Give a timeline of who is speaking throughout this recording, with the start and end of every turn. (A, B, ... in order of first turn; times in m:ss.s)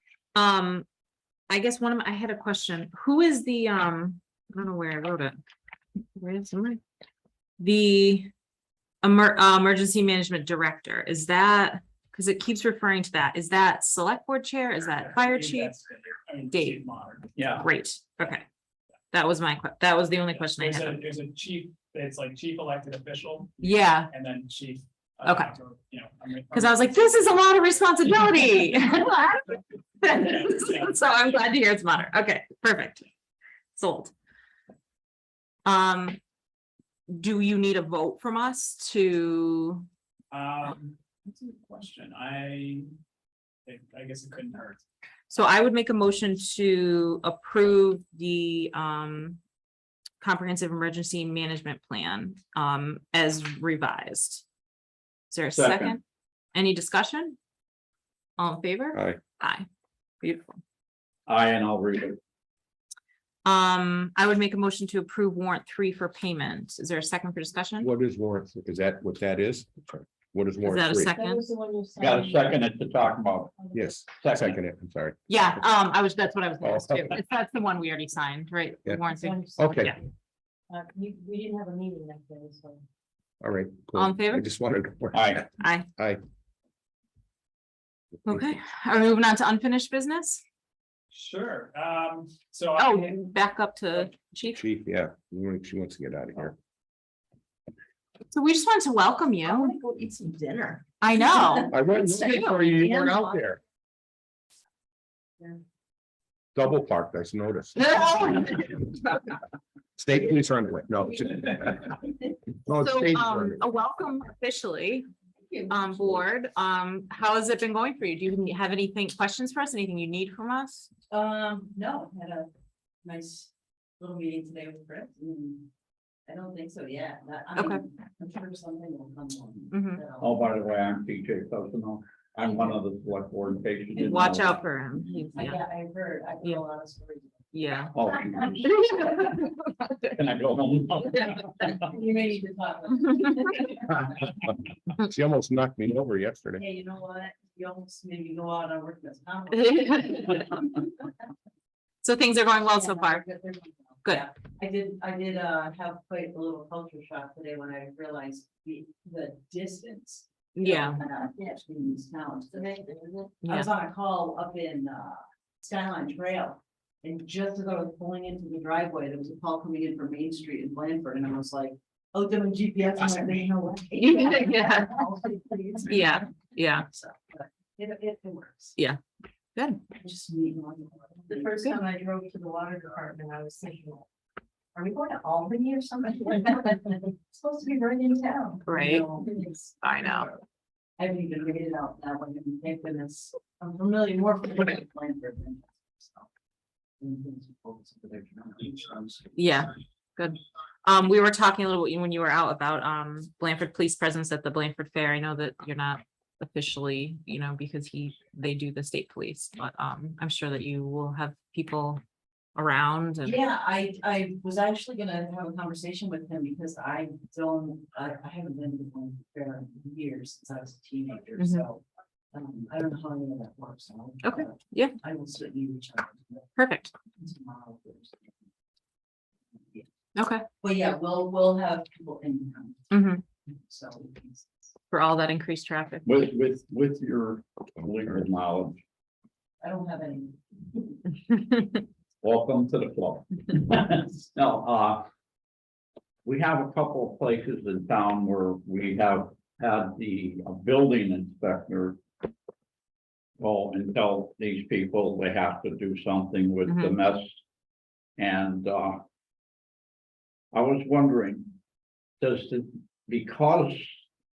0:00.4-0:00.9 A
0:01.5-0:05.4 A
0:06.2-0:06.8 A
0:07.6-0:08.3 A
0:09.0-0:15.8 A
0:14.8-0:17.7 B
0:16.5-0:16.8 A
0:17.6-0:18.4 A
0:19.1-0:21.0 A
0:20.3-0:27.3 B
0:23.6-0:24.1 A
0:25.2-0:25.5 A
0:26.5-0:33.0 A
0:30.2-0:31.0 B
0:33.8-0:34.1 A
0:35.7-0:36.2 A
0:37.1-0:39.9 A
0:40.3-0:43.0 B
0:43.7-0:44.8 B
0:45.3-0:49.4 A
0:50.2-0:54.4 A
0:55.3-0:56.0 A
0:55.5-0:56.0 C
0:56.5-0:57.4 A
0:58.4-0:59.7 A
0:58.9-0:59.2 D
1:00.2-1:00.6 A
1:01.3-1:02.2 C
1:03.4-1:07.9 A
1:07.8-1:11.1 D
1:10.6-1:11.5 A
1:11.2-1:12.6 E
1:12.0-1:13.6 C
1:13.6-1:14.0 E
1:13.7-1:15.2 D
1:14.1-1:14.6 C
1:15.3-1:20.0 A
1:16.6-1:17.2 D
1:19.2-1:20.0 E
1:19.6-1:20.0 D
1:20.7-1:22.8 E
1:23.4-1:26.2 D
1:24.0-1:24.5 A
1:25.1-1:25.4 C
1:25.6-1:25.9 A
1:28.2-1:30.4 A
1:31.1-1:33.2 B
1:32.8-1:34.6 A
1:34.6-1:36.6 D
1:38.3-1:39.8 A
1:39.4-1:43.4 E
1:41.0-1:42.7 A
1:41.7-1:43.6 D
1:46.6-1:48.0 D
1:47.8-1:48.6 A
1:48.1-1:48.7 E
1:50.0-1:52.0 D
1:51.0-1:52.4 E
1:52.6-1:53.6 D
1:52.8-1:55.1 A
1:55.5-1:56.1 E
1:55.7-2:00.9 A
2:01.1-2:02.5 E
2:03.0-2:05.7 E
2:06.3-2:10.4 E
2:07.6-2:07.8 A
2:09.7-2:10.0 A
2:10.2-2:14.6 C
2:12.4-2:12.8 E
2:14.0-2:14.3 E
2:14.0-2:15.6 A
2:15.0-2:17.5 E
2:17.5-2:18.0 A
2:17.9-2:18.8 C
2:18.1-2:19.3 E
2:18.6-2:20.0 A
2:20.2-2:21.7 C
2:21.6-2:24.4 E
2:25.0-2:26.6 D
2:26.6-2:31.2 E
2:29.5-2:30.5 A
2:32.0-2:33.2 A
2:32.7-2:58.8 E
2:40.6-2:41.0 A
2:43.4-2:43.7 A
2:54.0-2:55.0 A
2:55.9-2:56.9 A
2:59.6-2:59.8 A
3:00.0-3:04.1 E
3:04.8-3:10.2 E
3:08.7-3:09.1 A
3:09.8-3:10.3 A
3:11.0-3:16.3 E
3:17.0-3:19.4 E
3:19.4-3:32.0 A
3:32.6-3:33.4 A
3:33.2-3:46.5 E
3:41.4-3:41.6 A
3:44.2-3:44.9 A
3:46.6-3:46.9 A
3:47.1-3:48.4 E
3:49.6-3:49.9 E
3:50.2-3:50.4 A
3:50.6-3:52.9 E
3:52.9-3:53.2 A
3:53.5-3:54.7 E
3:54.9-3:56.0 A
3:56.0-3:58.8 C
3:59.6-4:01.0 E
4:02.2-4:05.1 C
4:06.2-4:12.0 C
4:13.4-4:17.4 C
4:16.7-4:17.0 A
4:18.2-4:19.0 C
4:20.5-4:21.6 C
4:22.2-4:23.9 C